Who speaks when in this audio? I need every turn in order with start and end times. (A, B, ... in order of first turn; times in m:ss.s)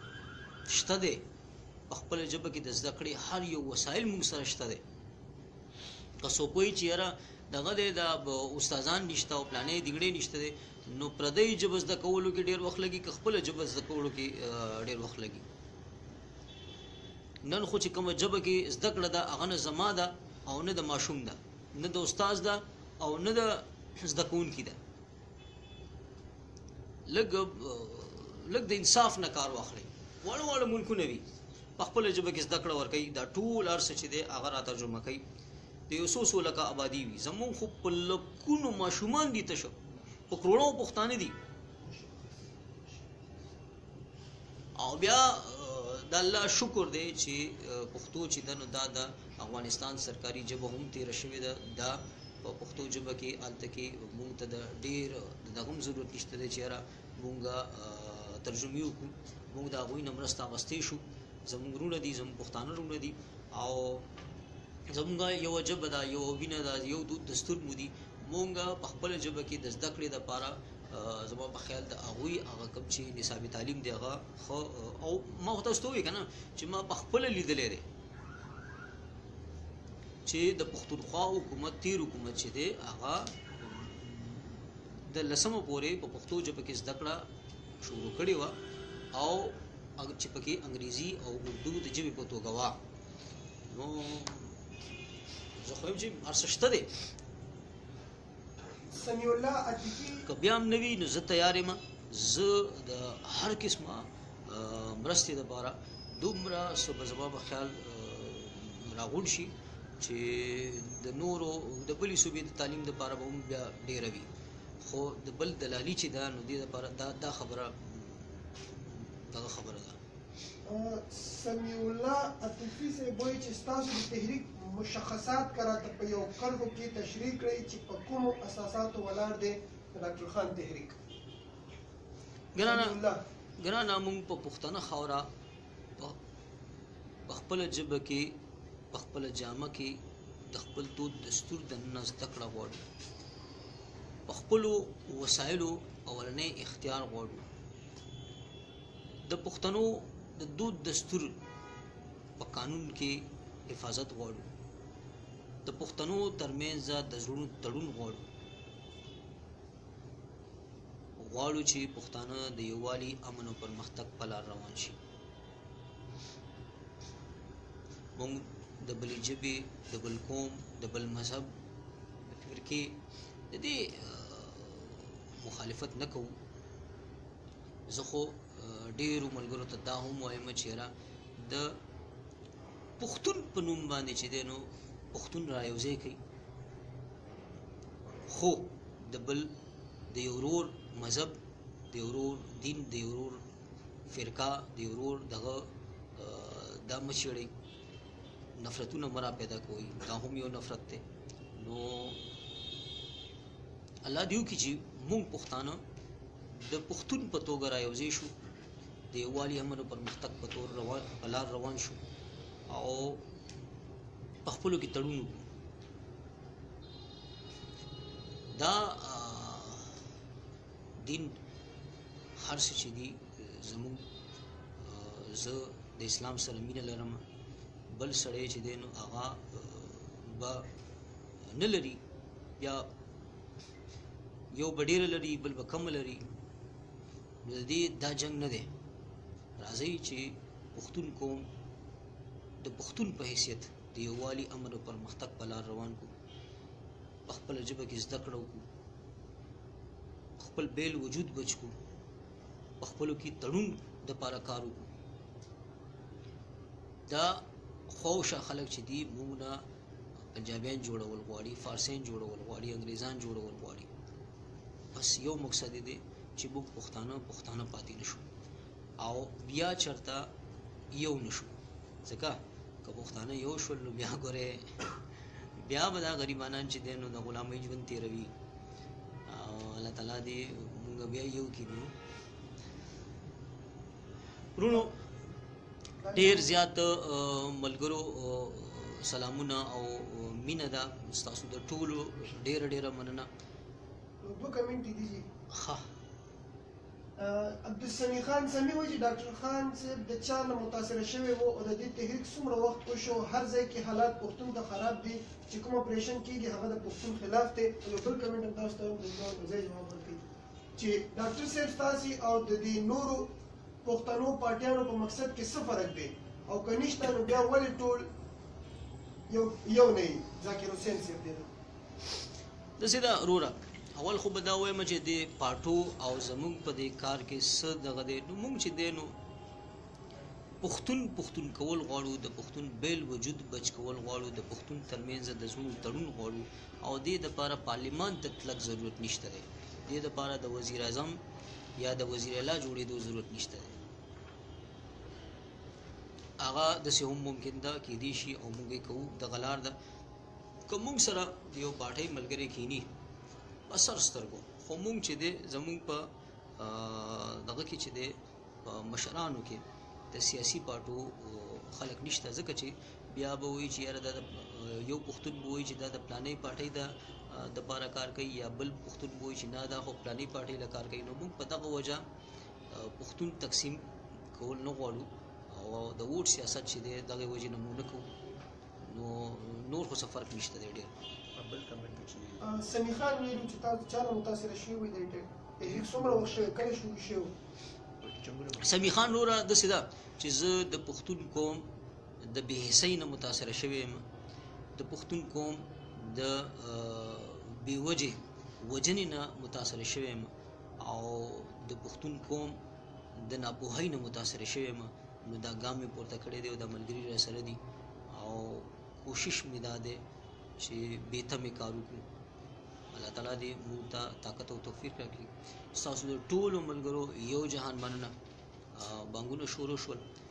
0:00.7-0:01.2 A
0:01.9-0:04.8 A
0:06.2-0:15.5 A
0:17.4-0:24.8 A
0:27.1-0:31.2 A
0:31.8-0:35.2 A
0:35.9-0:41.4 A
0:44.8-1:04.1 A
1:04.9-1:17.9 A
1:20.3-1:27.3 A
1:27.8-1:28.6 A
1:29.1-1:32.8 A
1:33.7-1:34.8 A
1:35.6-1:37.1 A
1:38.9-1:40.3 B
1:40.3-1:54.3 A
1:54.8-2:00.0 A
2:00.6-2:11.0 B
2:12.5-2:13.0 A
2:12.6-2:13.2 B
2:13.6-2:15.3 A
2:17.3-2:18.3 A
2:18.9-2:22.8 A
2:24.3-2:27.5 A
2:29.2-2:31.4 A
2:32.4-2:34.5 A
2:35.6-2:38.2 A
2:41.2-2:45.0 A
2:48.2-2:51.6 A
2:52.2-2:53.0 A
2:53.5-2:56.4 A
2:57.9-3:01.8 A
3:03.0-3:06.2 A
3:08.3-3:09.5 A
3:10.1-3:11.4 A
3:11.9-3:13.4 A
3:14.1-3:17.5 A
3:18.6-3:22.2 A
3:24.0-3:25.8 A
3:26.5-3:28.4 A
3:29.1-3:32.0 A
3:32.7-3:33.2 A
3:34.4-3:35.5 A
3:38.5-3:40.0 A
3:41.0-3:41.4 A
3:42.4-3:44.1 A
3:44.8-3:47.2 A
3:47.9-3:50.7 A
3:51.4-3:52.0 A
3:52.6-3:52.9 A
3:54.5-3:56.2 A
3:57.4-3:58.7 A
3:59.6-4:01.5 A
4:02.6-4:06.1 A
4:07.3-4:08.7 A
4:10.4-4:11.8 A
4:12.8-4:14.9 A
4:17.1-4:19.6 A
4:20.2-4:23.9 A
4:24.9-4:28.3 A
4:29.0-4:30.3 A
4:30.9-4:38.3 A
4:39.3-4:42.0 A
4:44.6-4:45.0 A
4:46.0-4:46.5 B
4:46.1-4:53.3 A
4:54.2-4:55.3 B
4:55.5-4:55.9 A
4:57.2-5:10.2 B
5:10.8-5:18.1 B
5:19.3-5:21.5 B
5:22.8-5:29.2 A
5:30.6-5:41.2 A
5:41.8-5:43.8 A
5:46.4-5:49.8 A
5:50.7-5:52.9 A
5:53.7-6:12.0 A
6:12.7-6:18.1 A
6:18.8-6:20.9 A
6:21.4-6:22.5 C
6:22.4-6:27.3 B
6:25.6-6:26.5 C
6:28.0-6:29.1 C
6:28.6-6:31.7 A
6:32.2-6:34.0 A
6:34.7-6:42.6 A
6:43.2-6:50.0 A
6:50.6-6:52.1 A
6:52.9-6:58.1 A
6:58.7-7:00.0 A